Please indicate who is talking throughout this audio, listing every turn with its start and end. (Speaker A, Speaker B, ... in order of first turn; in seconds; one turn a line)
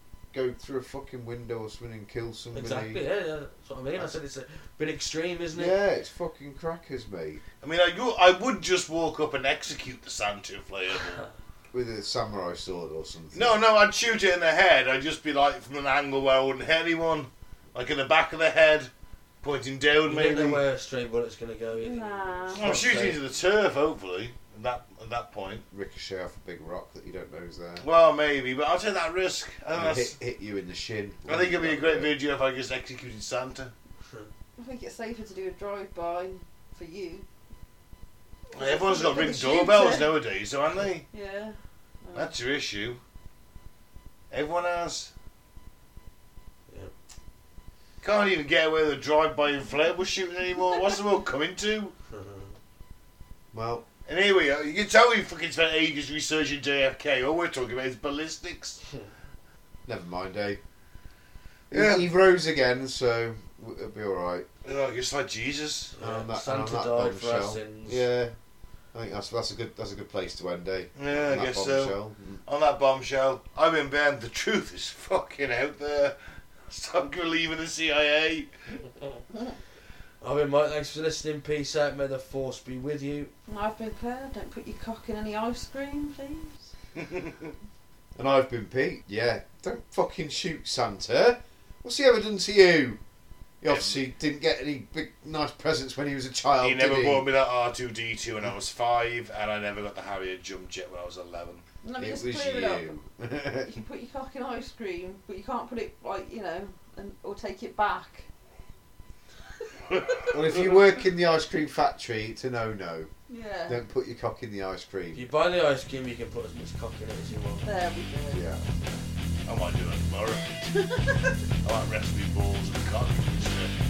Speaker A: 0.3-3.0
Speaker B: 2.5-5.8
Speaker A: 5.5-7.4
Speaker C: 7.6-11.2
Speaker A: 11.7-13.6
Speaker C: 13.3-18.9
Speaker C: 19.4-20.6
Speaker B: 20.1-23.1
Speaker D: 21.8-22.6
Speaker C: 22.5-25.6
Speaker A: 22.6-23.2
Speaker A: 25.7-27.9
Speaker C: 27.8-30.1
Speaker A: 29.7-32.1
Speaker C: 31.3-33.7
Speaker D: 34.6-37.3
Speaker C: 38.5-41.1
Speaker D: 38.6-40.2
Speaker D: 41.1-42.3
Speaker C: 42.1-43.0
Speaker C: 44.3-45.1
Speaker C: 48.0-52.0
Speaker B: 52.1-52.6
Speaker A: 53.5-53.9
Speaker C: 54.1-58.8
Speaker A: 59.9-60.6
Speaker C: 61.7-62.1
Speaker A: 61.7-64.5
Speaker C: 64.6-66.0
Speaker B: 66.0-68.1
Speaker A: 66.0-68.3
Speaker A: 68.9-72.4
Speaker C: 71.0-76.2
Speaker C: 76.7-78.8
Speaker B: 80.2-83.3
Speaker D: 83.5-86.7
Speaker C: 87.0-87.5
Speaker A: 88.2-93.0
Speaker A: 93.6-97.3
Speaker C: 93.7-94.0
Speaker C: 96.6-101.6
Speaker D: 101.8-103.0
Speaker A: 102.0-103.8
Speaker D: 103.7-108.3
Speaker C: 110.0-110.8
Speaker A: 110.3-113.1
Speaker D: 113.3-113.8
Speaker A: 113.7-115.2
Speaker B: 115.1-117.7
Speaker D: 117.6-118.5
Speaker A: 118.3-119.0
Speaker C: 119.5-120.6
Speaker D: 120.7-121.4
Speaker C: 121.6-123.8